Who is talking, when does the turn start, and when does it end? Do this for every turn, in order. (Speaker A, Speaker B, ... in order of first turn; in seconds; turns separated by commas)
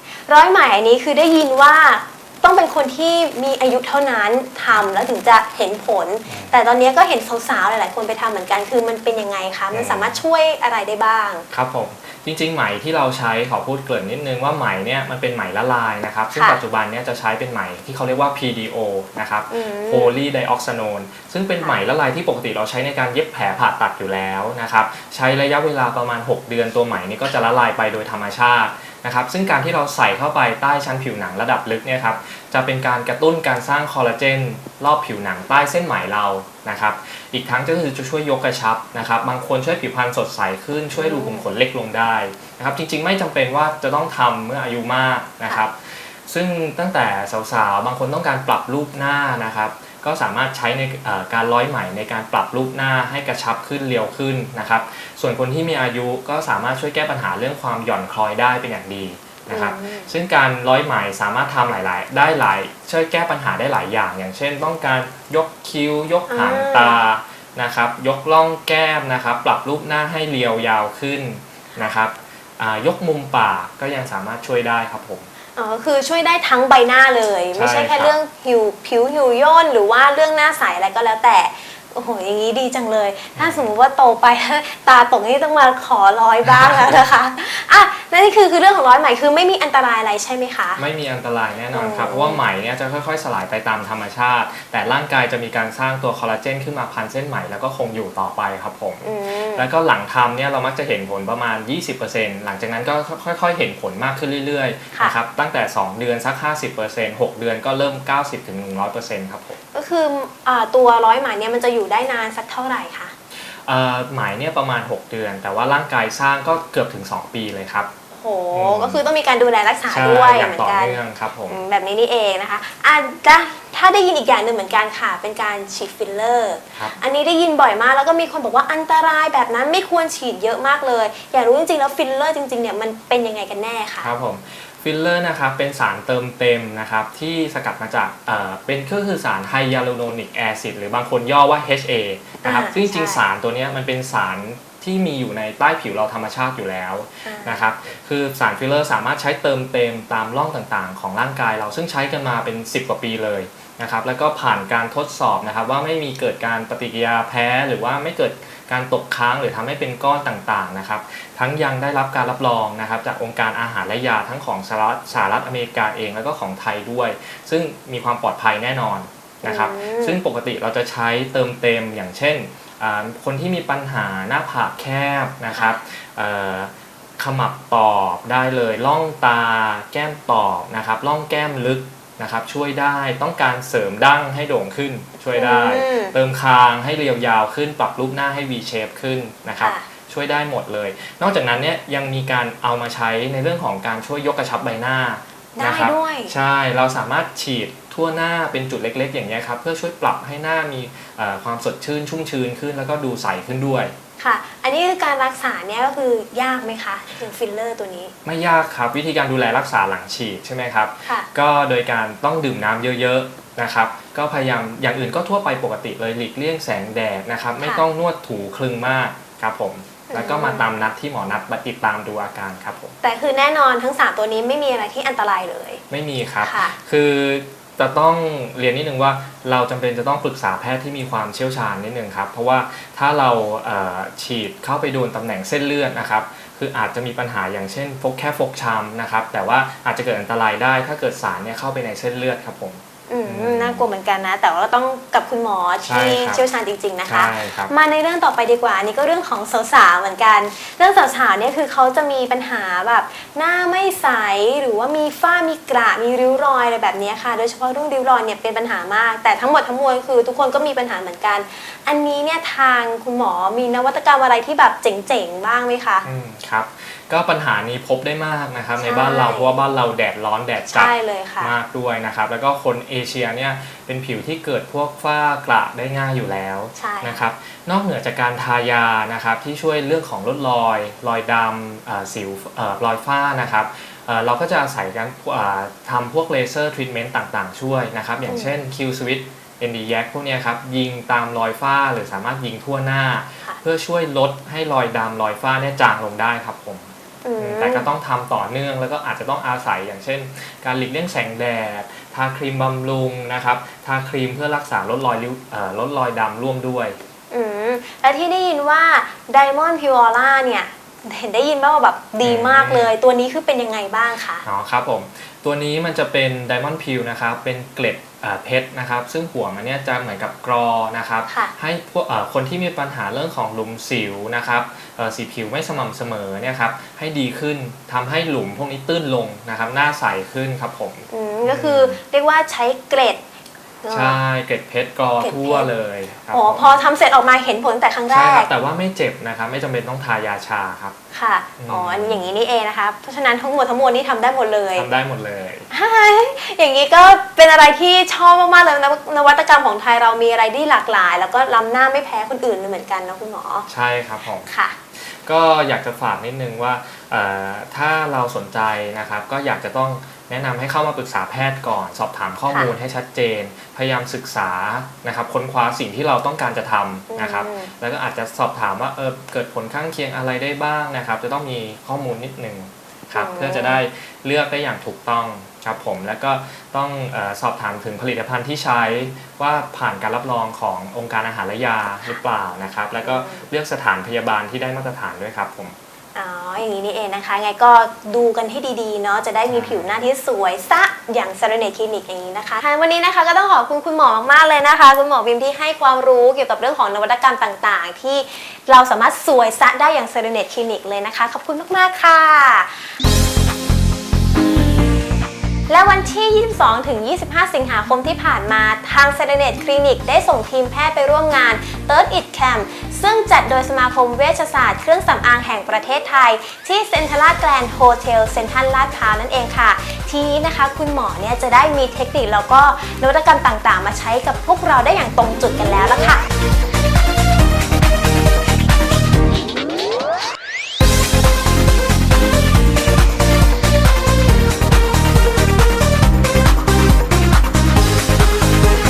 Speaker A: 0.3-11.5, Speaker B: 6.3-6.6, Speaker B: 9.7-10.2, Speaker B: 11.5-75.3, Speaker A: 19.5-20.1, Speaker A: 41.0-41.5, Speaker A: 59.5-60.1, Speaker A: 66.3-67.0, Speaker A: 75.6-90.8, Speaker B: 77.5-78.1, Speaker B: 83.4-83.7, Speaker B: 90.8-109.6, Speaker A: 91.7-92.4, Speaker A: 99.0-99.7, Speaker A: 109.7-113.1, Speaker B: 113.4-117.9, Speaker A: 118.1-134.1, Speaker B: 118.5-119.0, Speaker B: 119.9-121.6, Speaker B: 134.0-203.9, Speaker A: 142.4-143.2, Speaker A: 147.2-147.7, Speaker A: 169.4-170.2, Speaker A: 175.5-175.8, Speaker A: 185.3-186.2, Speaker A: 189.6-189.8, Speaker A: 195.6-196.3, Speaker A: 204.2-208.1, Speaker B: 208.2-222.9, Speaker A: 220.1-220.7, Speaker A: 223.0-225.8, Speaker B: 225.9-243.8, Speaker A: 226.4-226.8, Speaker A: 243.1-266.1, Speaker B: 245.8-246.4, Speaker B: 247.1-247.7, Speaker B: 266.1-307.0, Speaker A: 268.8-269.5, Speaker A: 270.7-271.5, Speaker A: 276.8-277.2, Speaker A: 288.3-288.6, Speaker A: 297.2-297.9, Speaker A: 307.3-314.4, Speaker B: 312.2-312.9, Speaker B: 314.4-332.0, Speaker A: 331.1-333.2, Speaker A: 333.8-334.2, Speaker B: 333.9-336.7, Speaker A: 335.2-335.7, Speaker A: 336.3-338.5, Speaker B: 338.1-340.9, Speaker A: 341.1-344.9, Speaker B: 341.6-342.3, Speaker B: 344.8-345.7, Speaker A: 345.7-353.7, Speaker B: 353.7-385.8, Speaker A: 354.4-354.8, Speaker A: 367.1-367.7, Speaker A: 373.1-373.8, Speaker A: 382.9-383.5, Speaker A: 386.1-402.9, Speaker B: 389.5-390.0, Speaker A: 405.7-426.2